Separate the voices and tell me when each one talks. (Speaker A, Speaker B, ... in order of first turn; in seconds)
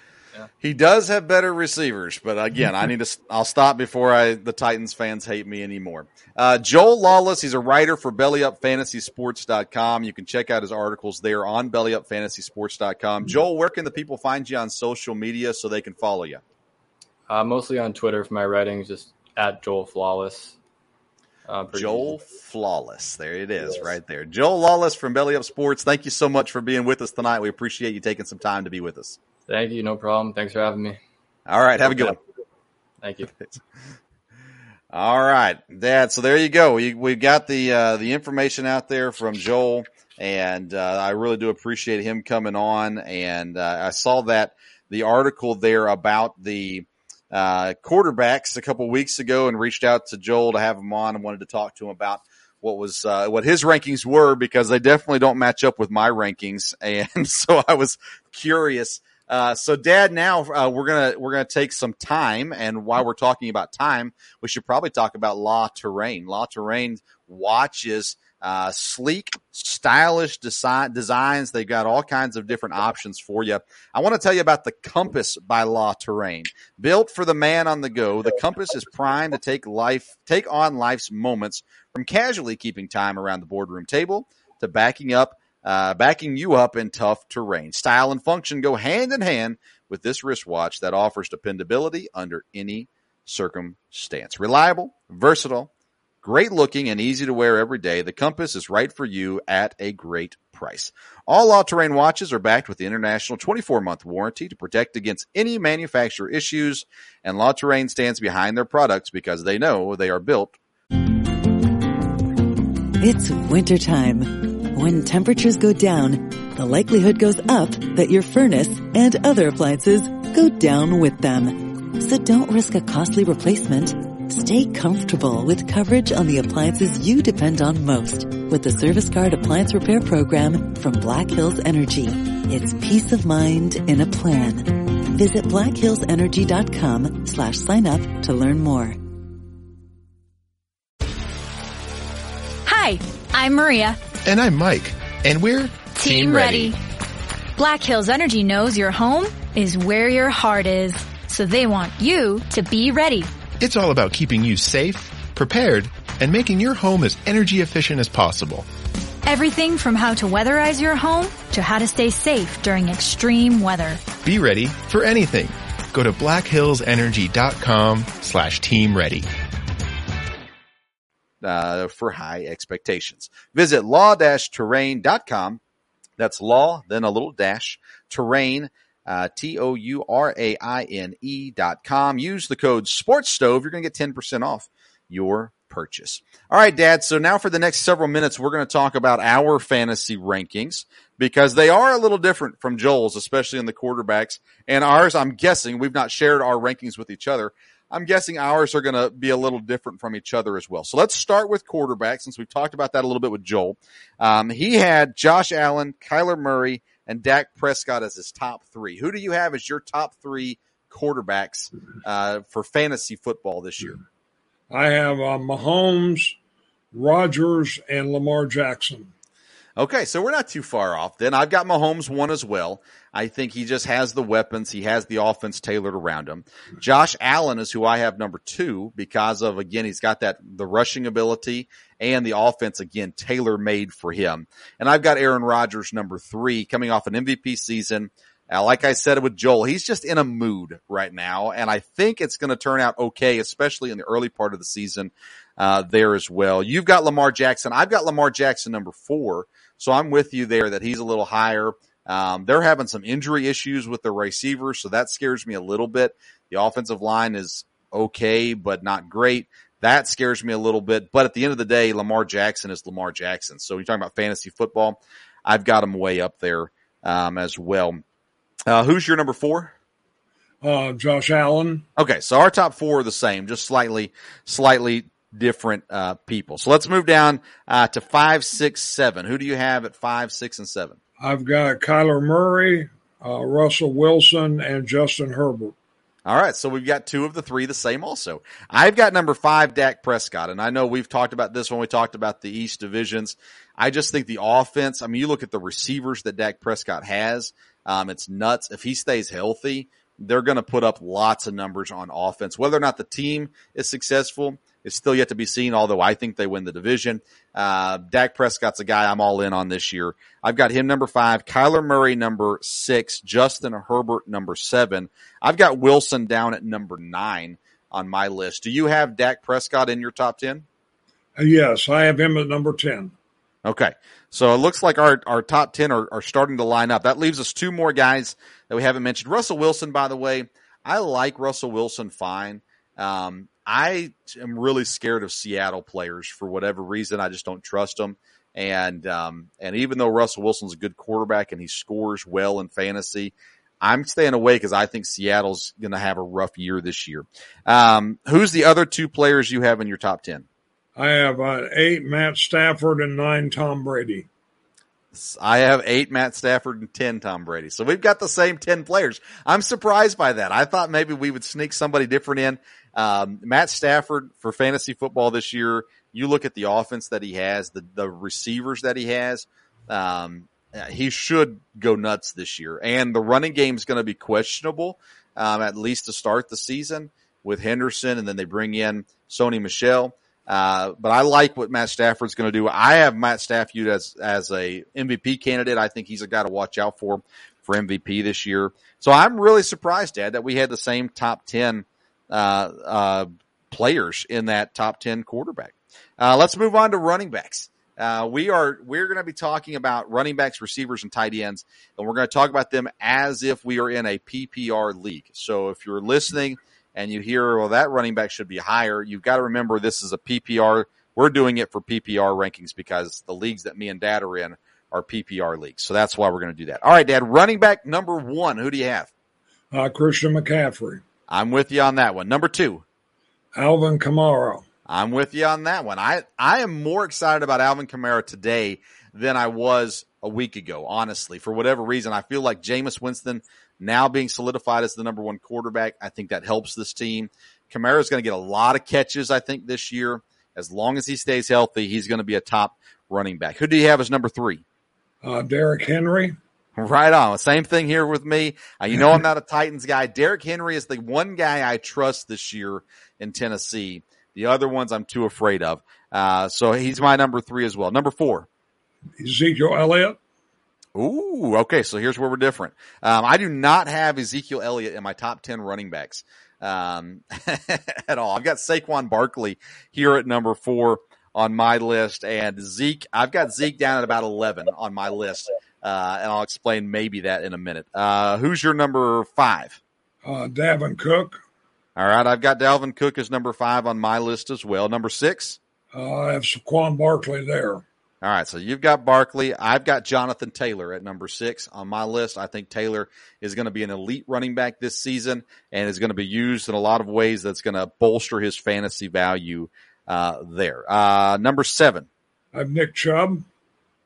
Speaker A: 0.6-16.4, 21.7-29.2, 31.5-32.2, 34.9-95.7, 96.2-110.5, 171.4-175.6, 176.2-214.0, 219.8-268.0, 268.7-269.7, 272.0-281.0, 286.2-320.6, 323.6-350.4, 355.1-419.1, 421.3-422.8, 424.9-444.6, 446.8-458.5, 460.9-479.8, 481.9-485.6, 488.2-502.1
Speaker B: 17.3-20.6, 21.5-22.2, 29.5-31.0, 31.9-32.1, 33.0-33.3
Speaker C: 113.0-139.0
Speaker D: 142.7-144.0, 145.9-146.8, 147.6-153.3, 159.2-164.0
Speaker E: 144.2-146.7, 153.6-158.6, 164.2-169.3
Speaker F: 214.7-216.3, 216.9-219.1, 270.6-271.8, 281.2-285.7, 321.4-323.1, 351.0-354.3, 419.7-421.0, 423.5-424.6, 445.2-446.4, 459.2-460.2, 480.2-481.4, 485.9-487.8, 502.5-503.4